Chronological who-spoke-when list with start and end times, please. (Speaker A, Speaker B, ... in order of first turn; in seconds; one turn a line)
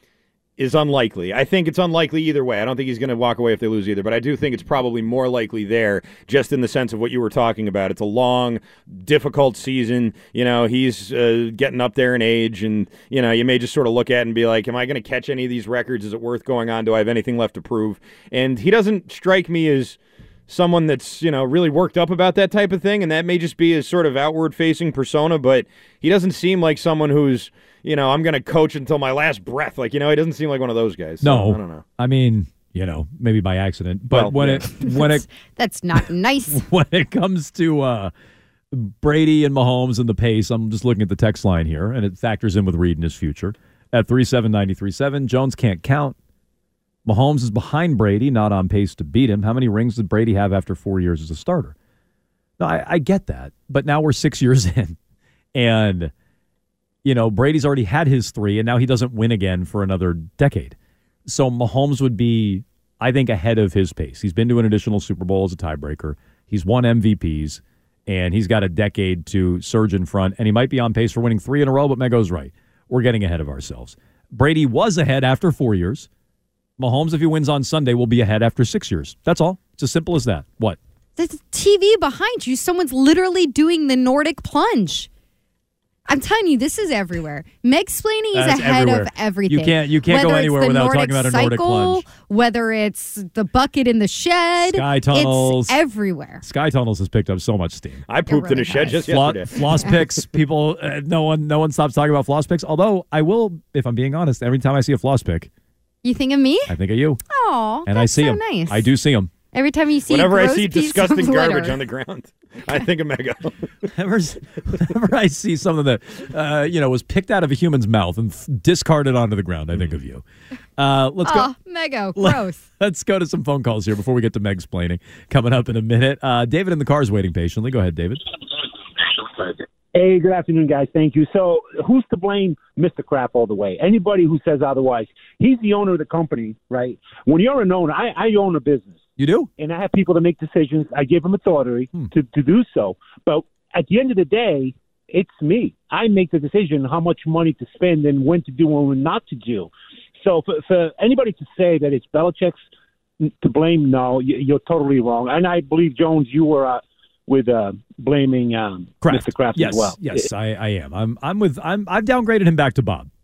Speaker A: 0.6-31.8
Speaker B: 31.2-35.2
Speaker A: 34.1-34.6
Speaker C: 34.7-36.6
Speaker B: 36.5-38.1
Speaker B: 38.7-46.1
Speaker B: 47.0-51.7
Speaker B: 52.6-55.0
Speaker B: 55.5-56.1
Speaker B: 57.0-60.7
Speaker B: 61.2-76.1
Speaker B: 76.8-80.8
Speaker C: 81.2-85.1
Speaker C: 86.1-96.4
Speaker B: 88.3-92.1
Speaker B: 94.6-95.8
Speaker B: 96.4-98.0
Speaker A: 98.1-99.9
Speaker C: 98.3-99.0
Speaker B: 99.0-105.5
Speaker C: 106.0-106.8
Speaker B: 106.7-107.2
Speaker C: 107.3-108.9
Speaker B: 107.8-109.3
Speaker C: 109.5-111.8
Speaker A: 110.1-113.6
Speaker B: 113.9-120.2
Speaker B: 120.8-121.5
Speaker C: 121.2-122.6
Speaker B: 122.2-128.2
Speaker D: 129.9-139.1
Speaker B: 139.2-139.5
Speaker D: 139.6-152.6
Speaker D: 153.2-160.3
Speaker B: 159.0-163.1